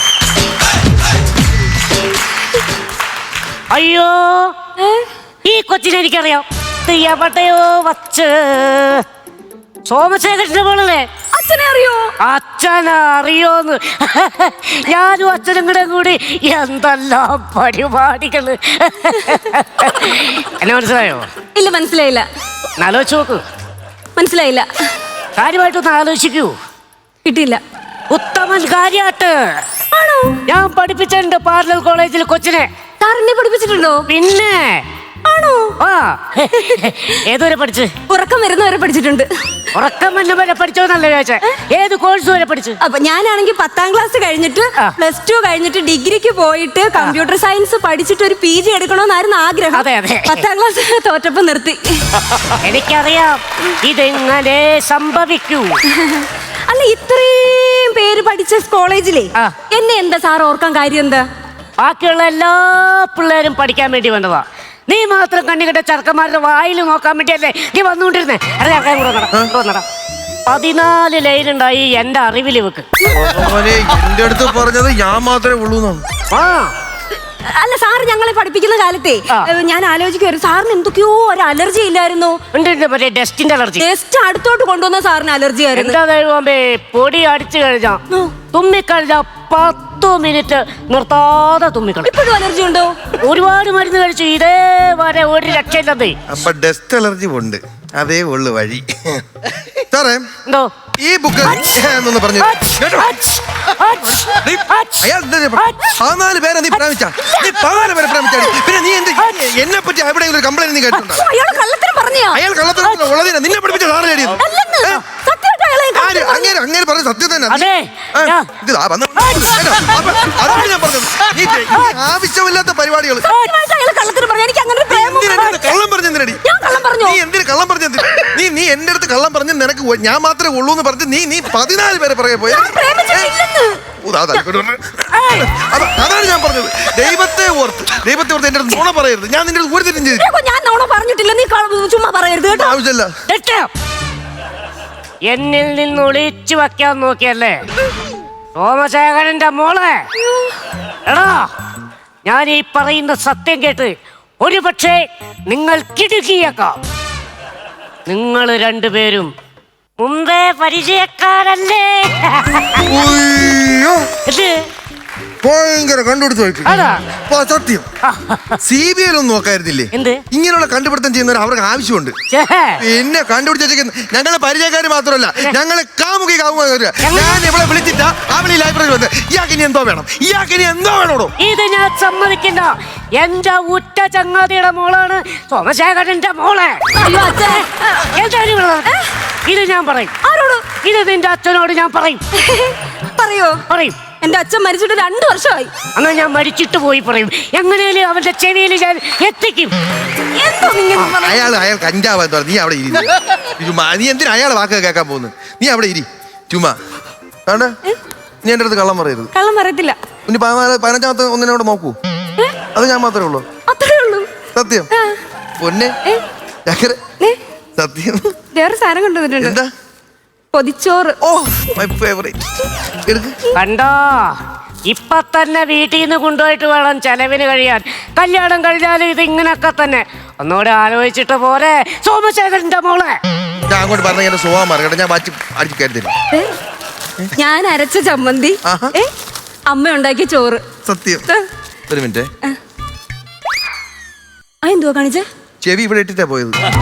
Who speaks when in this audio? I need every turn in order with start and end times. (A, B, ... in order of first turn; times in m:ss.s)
0:03.7-0:04.6 A
0:04.8-0:05.1 B
0:05.4-0:09.0 A
0:09.9-0:11.0 A
0:11.3-0:12.1 B
0:12.2-0:21.3 A
0:21.5-0:22.2 B
0:22.8-0:23.4 A
0:24.2-0:24.7 B
0:25.4-0:26.6 A
0:27.2-0:27.6 B
0:28.1-0:29.6 A
0:29.9-0:30.4 B
0:30.5-0:32.7 A
0:33.0-0:34.1 B
0:34.1-0:34.8 A
0:35.2-0:35.8 B
0:35.8-0:37.9 A
0:36.5-0:36.8 B
0:38.1-0:39.3 B
0:39.7-0:42.8 A
0:42.8-0:52.2 B
0:49.7-0:50.5 A
0:52.5-0:55.8 A
0:55.9-1:01.2 B
1:01.8-1:09.9 A
1:10.5-1:12.8 A
1:13.1-1:16.0 C
1:16.3-1:16.7 A
1:17.5-1:22.4 B
1:22.5-1:23.9 A
1:23.8-1:26.0 B
1:25.7-1:32.2 A
1:32.0-1:33.1 B
1:33.2-1:36.2 A
1:36.3-1:39.2 C
1:39.9-1:40.3 C
1:40.4-1:40.7 A
1:41.0-1:43.1 C
1:42.4-1:46.0 A
1:44.2-1:51.2 C
1:47.2-1:47.6 B
1:49.2-1:49.5 A
1:51.0-1:52.4 B
1:52.3-1:55.0 C
1:54.4-1:56.5 B
1:55.9-2:03.3 C
1:57.5-1:58.5 A
1:59.2-2:00.0 A
2:00.0-2:00.5 B
2:03.2-2:05.8 B
2:04.9-2:06.4 C
2:06.4-2:07.2 B
2:07.0-2:13.3 C
2:12.5-2:13.8 B
2:14.0-2:20.3 C
2:15.1-2:15.5 A
2:20.1-2:22.8 B
2:22.5-2:23.1 C
2:23.3-2:23.7 A
2:25.3-2:27.6 A
2:28.6-2:30.0 A
2:30.2-2:30.6 B
2:31.1-2:31.5 A
2:32.2-2:36.8 A
2:38.1-2:39.3 A
2:40.0-2:42.9 A
2:42.8-2:44.1 C
2:44.2-2:44.6 A
2:45.4-2:46.7 C
2:46.6-2:47.0 A
2:47.3-2:47.8 C
2:48.0-2:48.6 A
2:48.6-2:52.1 C
2:49.9-2:50.2 A
2:52.3-2:52.8 A
2:52.8-3:01.3 C
2:57.0-2:57.4 A
3:01.4-3:10.1 A
3:06.9-3:08.1 B
3:10.2-3:10.7 B
3:10.8-3:12.2 A
3:12.3-3:13.6 B
3:13.7-3:14.0 A
3:14.2-3:15.7 B
3:16.0-3:19.8 A
3:20.3-3:21.6 B
3:21.1-3:26.8 C
3:27.5-3:27.7 C
3:28.4-3:29.3 C
3:29.3-3:30.0 B
3:30.2-3:31.9 C
3:32.7-3:33.4 C
3:33.7-3:34.4 B
3:34.5-3:34.9 C
3:34.9-3:35.2 B
3:35.6-3:35.9 C
3:36.6-3:37.0 C
3:37.8-3:38.4 C
3:38.5-3:39.6 B
3:39.4-3:39.6 C
3:40.5-3:41.2 B
3:41.2-3:42.4 C
3:43.0-3:43.4 C
3:43.5-3:44.4 A
3:44.9-3:53.2 A
3:53.7-3:56.1 C
3:57.4-3:59.1 B
3:58.6-3:59.0 C
3:59.7-4:00.6 B
4:00.8-4:01.3 C
4:01.9-4:02.3 C
4:04.6-4:05.2 B
4:05.6-4:06.6 C